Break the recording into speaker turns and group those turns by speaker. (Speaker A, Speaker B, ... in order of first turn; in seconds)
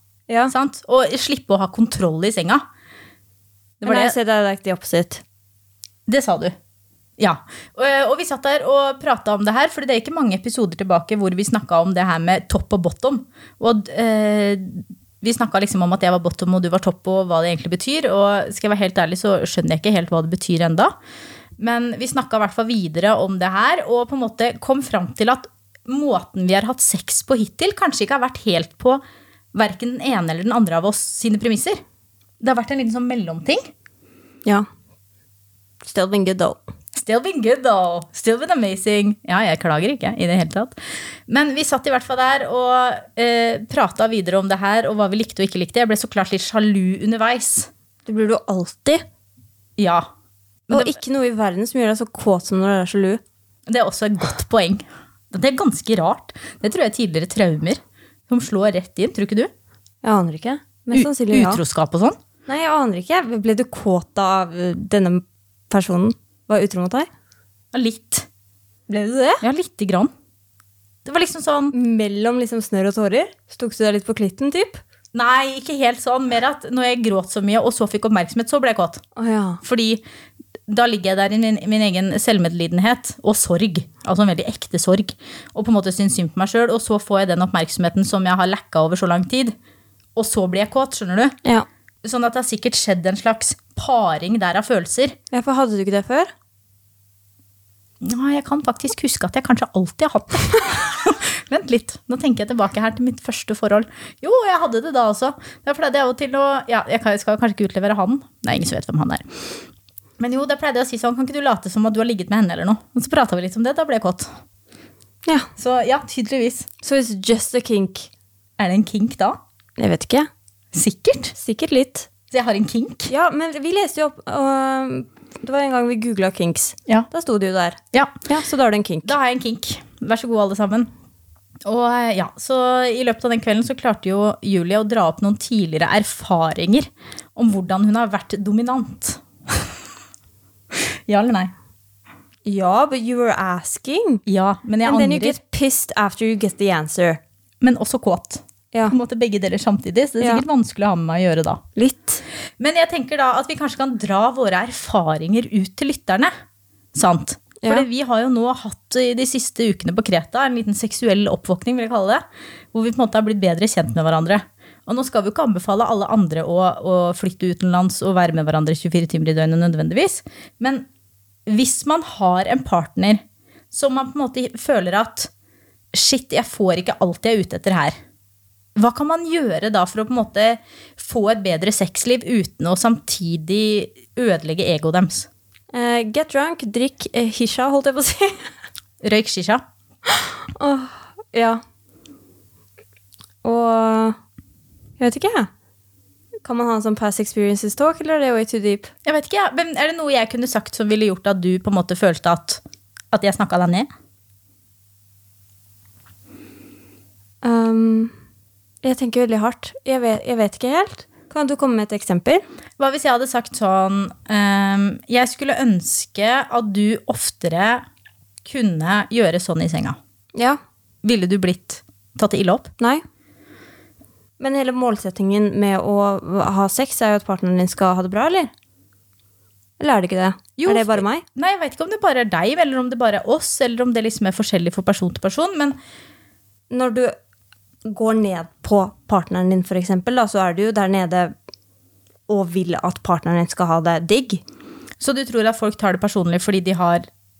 Speaker A: 0.5-2.6, 3.8-4.1, 6.1-6.5, 7.2-20.9, 21.6-29.0, 29.5-31.8, 32.4-33.7, 36.9-40.8, 41.3-47.7, 49.8-50.1, 50.7-51.0, 53.7-59.5, 60.9-62.2, 67.7-68.3, 69.4-70.1, 71.0-71.7, 75.1-79.0, 79.6-80.0, 80.7-89.5, 90.2-91.3, 92.0-95.2, 98.0-109.2, 110.2-114.3, 115.6-116.7, 118.6-119.4, 120.7-121.3, 122.3-123.1, 129.0-130.9, 131.6-139.7, 140.7-141.5, 144.2-145.4, 147.6-151.6, 152.6-156.3, 156.9-170.9, 171.4-175.3, 175.9-177.9, 178.8-185.3, 189.0-189.6, 199.0-203.9, 212.8-217.8, 218.4-220.0, 221.0-222.7, 230.6-235.8, 245.0-247.1
Speaker B: 3.8-5.2, 35.8-36.6, 48.0-49.0, 50.7-53.2, 60.0-61.6, 62.5-67.1, 68.9-69.4, 71.7-74.8, 79.2-79.6, 95.3-96.3, 116.8-118.1, 119.8-120.3, 121.3-122.1, 123.1-129.1, 142.4-144.2, 144.8-147.2, 151.8-152.2, 185.7-188.5, 190.1-191.6, 193.4-194.2, 195.0-195.5, 196.4-198.9, 207.4-208.1, 208.8-212.4, 224.4-228.5, 229.8-231.2, 236.7-237.1, 237.8-241.3, 242.3-244.4